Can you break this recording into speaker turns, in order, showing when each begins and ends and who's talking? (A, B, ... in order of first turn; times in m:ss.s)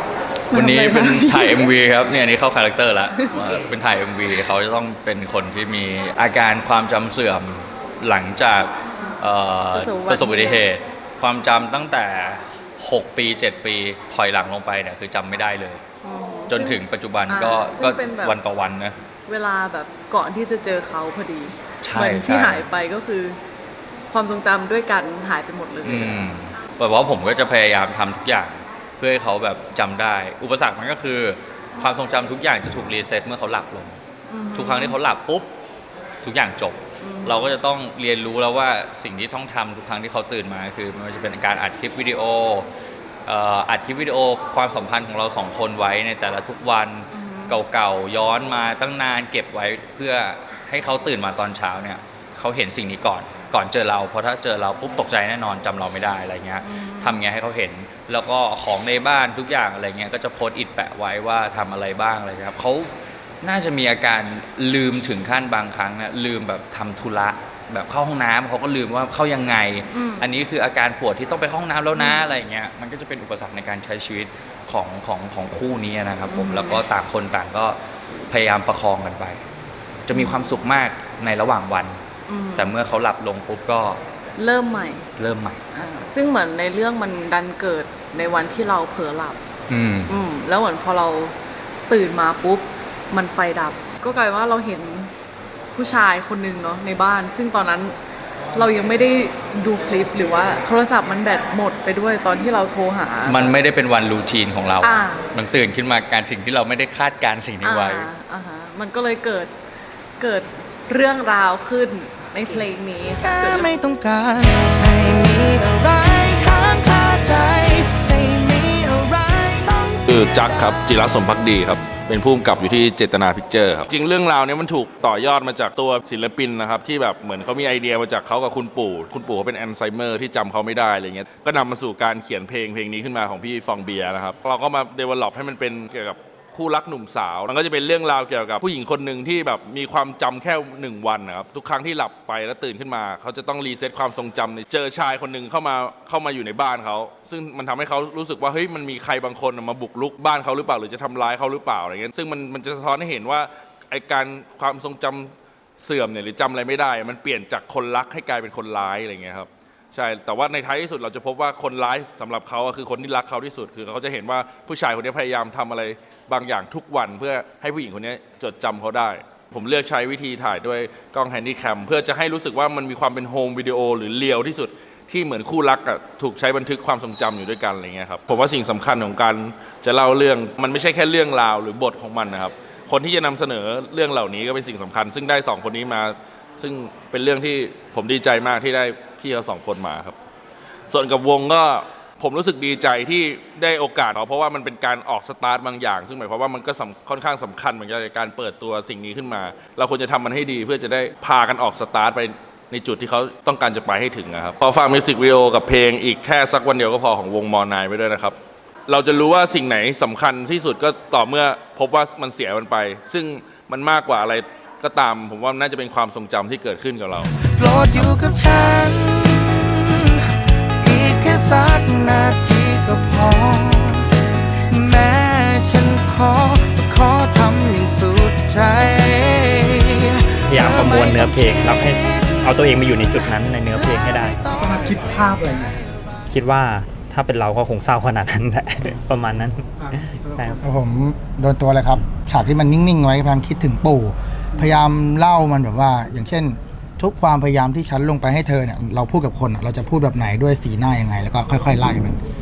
0:00.5-0:01.7 A
0:00.5-0:15.8 B
0:09.7-0:10.6 A
0:16.0-0:18.3 A
0:16.5-0:19.0 B
0:19.3-0:23.4 A
0:21.8-0:22.6 B
0:24.1-0:26.4 A
0:25.8-0:34.0 B
0:34.3-0:35.0 A
0:34.5-0:35.5 B
0:36.2-0:42.7 B
0:37.0-0:37.6 A
0:43.2-1:17.8 B
0:47.1-0:47.5 A
0:56.6-0:57.1 A
1:09.9-1:10.2 A
1:11.9-1:12.3 A
1:16.3-1:16.8 A
1:18.3-1:19.4 B
1:20.1-1:22.0 B
1:20.1-1:20.7 A
1:22.3-1:22.7 A
1:22.6-1:24.0 B
1:24.4-1:25.0 A
1:25.2-1:25.6 B
1:25.7-1:29.4 A
1:29.7-1:30.2 B
1:30.1-1:31.4 A
1:31.9-1:35.1 A
1:35.7-1:38.0 A
1:38.5-1:43.4 A
1:43.2-1:48.1 B
1:44.8-1:45.2 A
1:47.6-1:49.5 A
1:50.2-1:53.7 A
1:53.2-2:00.8 C
2:00.1-3:10.2 D
3:10.9-3:37.4 D
3:37.4-3:44.1 C
3:37.9-3:38.4 D
3:44.7-3:56.2 C
3:50.4-3:54.4 E
3:56.3-4:00.6 E
4:00.6-4:12.2 F